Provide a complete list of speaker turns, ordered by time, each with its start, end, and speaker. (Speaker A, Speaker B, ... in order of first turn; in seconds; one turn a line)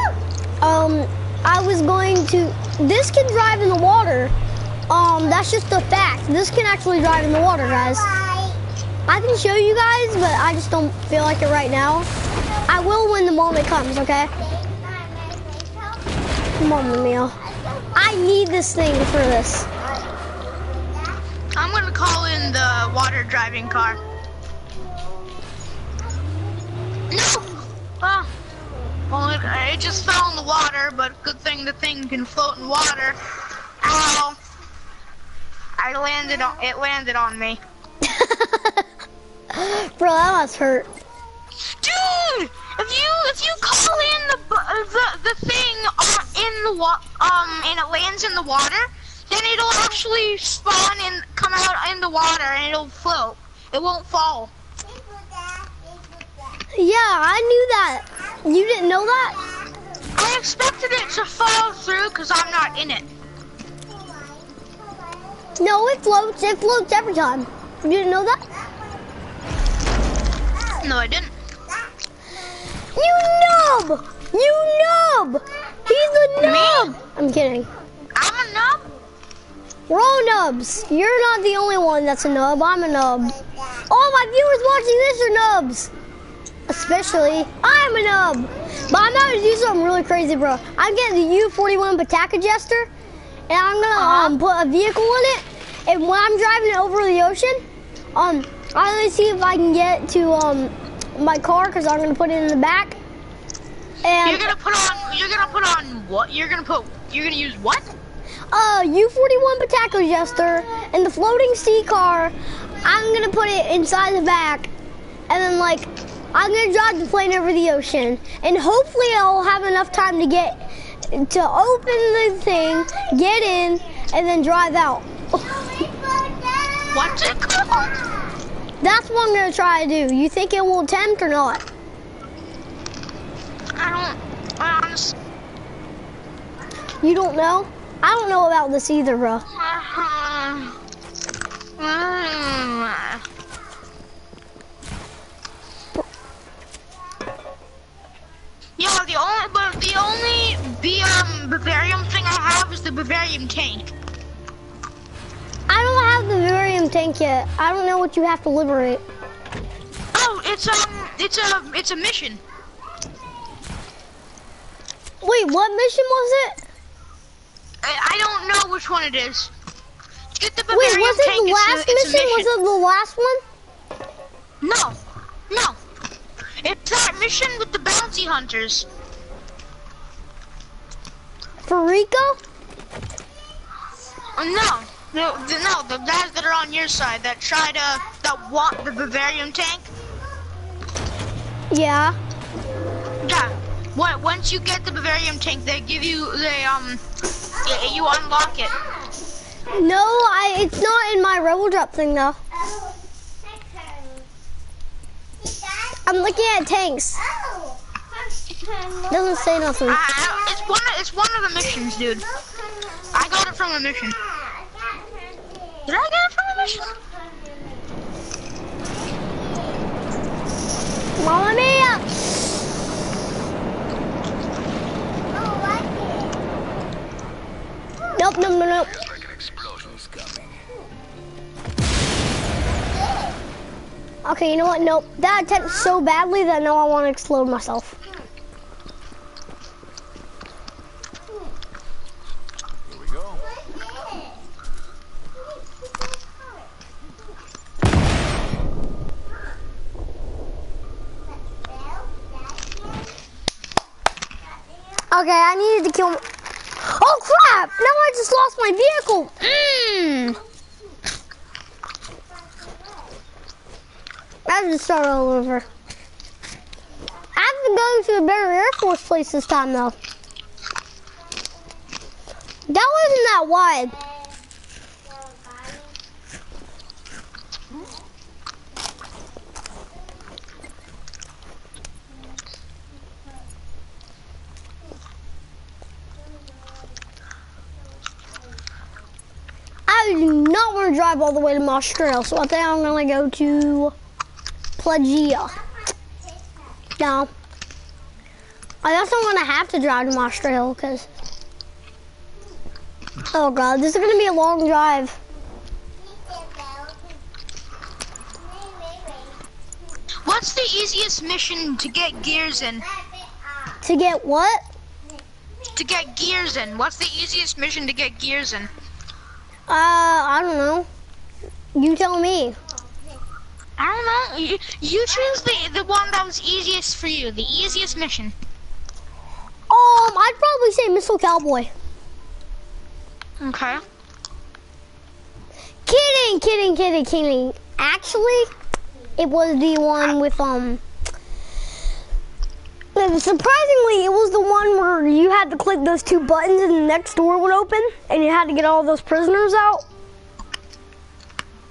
Speaker A: 0.6-4.3
Speaker A: 4.9-8.2
Speaker A: 9.1-12.1
Speaker A: 12.7-14.3
Speaker A: 16.6-17.4
Speaker A: 17.9-19.7
Speaker B: 21.5-24.0
Speaker B: 27.1-28.3
Speaker B: 29.1-33.2
Speaker B: 33.8-34.4
Speaker B: 35.8-37.6
Speaker A: 38.0-38.9
Speaker A: 39.5-40.9
Speaker B: 41.6-54.5
Speaker A: 56.7-59.5
Speaker B: 60.1-63.1
Speaker A: 65.6-68.4
Speaker B: 70.7-71.3
Speaker A: 72.8-77.7
Speaker B: 76.4-77.0
Speaker B: 78.1-78.9
Speaker A: 79.9-85.9
Speaker A: 86.7-92.9
Speaker A: 93.5-97.6
Speaker B: 93.9-94.4
Speaker A: 98.1-103.0
Speaker A: 104.0-104.5
Speaker B: 104.2-107.9
Speaker A: 108.5-114.7
Speaker A: 115.3-125.6
Speaker B: 126.8-128.0
Speaker A: 128.8-131.6
Speaker B: 133.7-135.2
Speaker A: 137.0-139.4
Speaker B: 139.5-140.8
Speaker B: 141.8-143.2
Speaker B: 148.8-153.9
Speaker A: 155.7-159.0
Speaker B: 160.1-162.4
Speaker A: 165.2-166.6
Speaker B: 167.8-169.5
Speaker B: 170.4-172.5
Speaker A: 170.7-173.4
Speaker B: 174.6-175.0
Speaker B: 175.5-175.8
Speaker B: 176.6-178.9
Speaker A: 181.7-182.4
Speaker B: 184.3-189.9
Speaker A: 191.7-192.2
Speaker B: 193.2-197.0
Speaker B: 197.6-198.8
Speaker A: 199.7-202.4
Speaker A: 206.0-207.2
Speaker A: 209.1-210.0
Speaker B: 209.8-212.2
Speaker B: 213.1-214.2
Speaker B: 215.8-216.9
Speaker A: 221.2-222.1
Speaker A: 228.1-228.9
Speaker A: 234.2-238.0
Speaker A: 255.1-256.2
Speaker A: 256.8-259.4
Speaker B: 259.4-260.4
Speaker A: 264.5-265.6
Speaker A: 267.4-270.0
Speaker A: 272.7-274.0
Speaker A: 289.9-293.9
Speaker A: 294.8-295.6
Speaker A: 297.0-297.3
Speaker A: 298.8-301.1
Speaker A: 303.3-305.1
Speaker B: 310.2-312.9
Speaker A: 313.8-314.6
Speaker B: 315.7-318.7
Speaker A: 319.7-320.9
Speaker A: 321.7-322.6
Speaker B: 323.8-328.3
Speaker A: 329.7-331.7
Speaker B: 333.4-333.8
Speaker A: 335.9-338.5
Speaker A: 339.2-340.8
Speaker A: 342.9-349.8